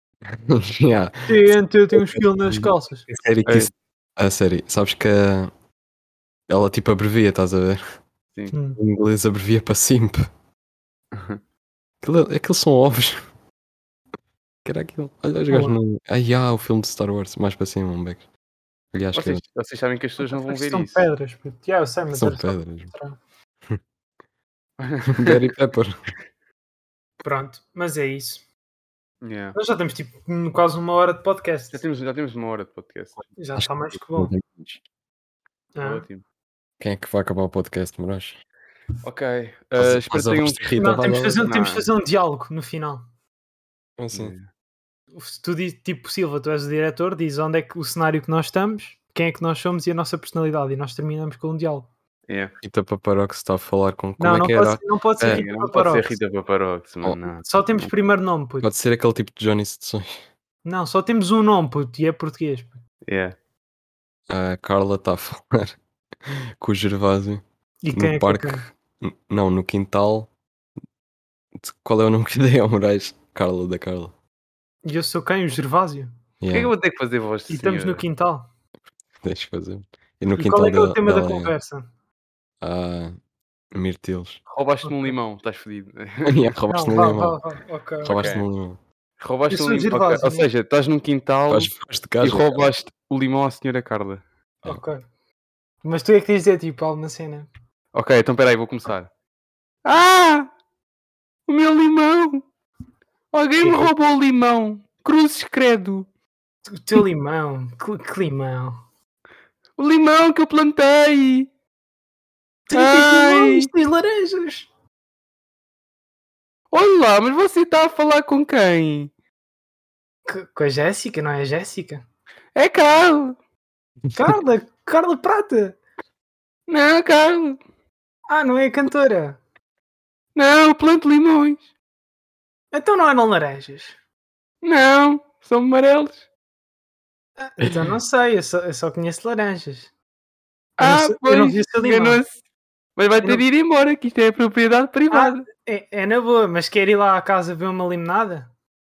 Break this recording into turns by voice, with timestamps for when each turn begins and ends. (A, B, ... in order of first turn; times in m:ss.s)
0:00.3-0:05.5 A
0:01.3-0:03.1 B
0:03.4-0:03.7 C
0:06.5-0:07.8 A
0:08.5-0:08.8 B
0:08.8-0:10.2 A
0:11.1-0:11.4 C
0:12.0-0:13.2 A
0:14.6-0:18.2 A
0:15.5-0:15.7 B
0:18.9-0:19.4 A
0:19.1-0:21.1 C
0:20.2-0:23.2 B
0:22.1-0:22.9 A
0:24.8-0:25.5 C
0:25.1-0:26.0 A
0:27.2-0:28.4 B
0:29.2-0:29.6 C
0:29.6-0:31.8 B
0:31.7-0:33.2 C
0:33.4-0:34.3 B
0:33.5-0:34.8 A
0:35.7-0:36.0 B
0:35.8-0:36.2 C
0:36.8-0:38.4 A
0:39.0-0:40.7 C
0:39.8-0:41.4 A
0:40.8-0:43.0 B
0:41.4-0:41.8 C
0:44.0-0:44.4 A
0:44.1-0:44.4 C
0:45.1-0:51.9 B
0:52.3-0:52.5 C
0:52.6-0:55.4 A
0:54.2-0:56.2 B
0:55.2-0:57.9 C
0:57.4-0:58.7 B
0:58.6-1:00.2 A
1:00.6-1:02.8 B
1:03.0-1:03.3 C
1:04.3-1:10.3 A
1:07.8-1:08.7 B
1:11.6-1:14.1 A
1:14.8-1:16.1 B
1:16.4-1:16.7 A
1:16.5-1:18.0 C
1:17.5-1:18.5 B
1:19.2-1:21.5 A
1:20.4-1:21.9 B
1:22.6-1:23.2 A
1:23.7-1:24.4 A
1:24.5-1:26.4 C
1:24.8-1:25.1 B
1:26.2-1:27.4 A
1:26.7-1:28.2 B
1:28.0-1:28.8 A
1:28.0-1:28.4 C
1:29.2-1:34.2 C
1:29.5-1:30.5 B
1:31.5-1:32.7 A
1:34.6-1:35.0 B
1:35.8-1:37.5 B
1:37.9-1:39.1 C
1:39.8-1:40.5 C
1:41.5-1:42.4 C
1:43.3-1:46.1 C
1:43.6-1:43.9 B
1:46.8-1:48.8 B
1:49.8-1:51.5 C
1:52.7-1:54.7 B
1:52.7-1:53.7 C
1:56.7-1:59.1 C
2:00.2-2:02.0 B
2:02.5-2:03.4 C
2:04.1-2:05.8 B
2:06.7-2:07.6 C
2:08.3-2:09.4 B
2:10.3-2:11.6 C
2:12.7-2:14.0 B
2:14.6-2:16.2 C
2:17.4-2:19.9 B
2:17.6-2:17.9 A
2:20.8-2:22.3 C
2:20.8-2:22.2 B
2:23.0-2:25.4 C
2:25.1-2:28.5 B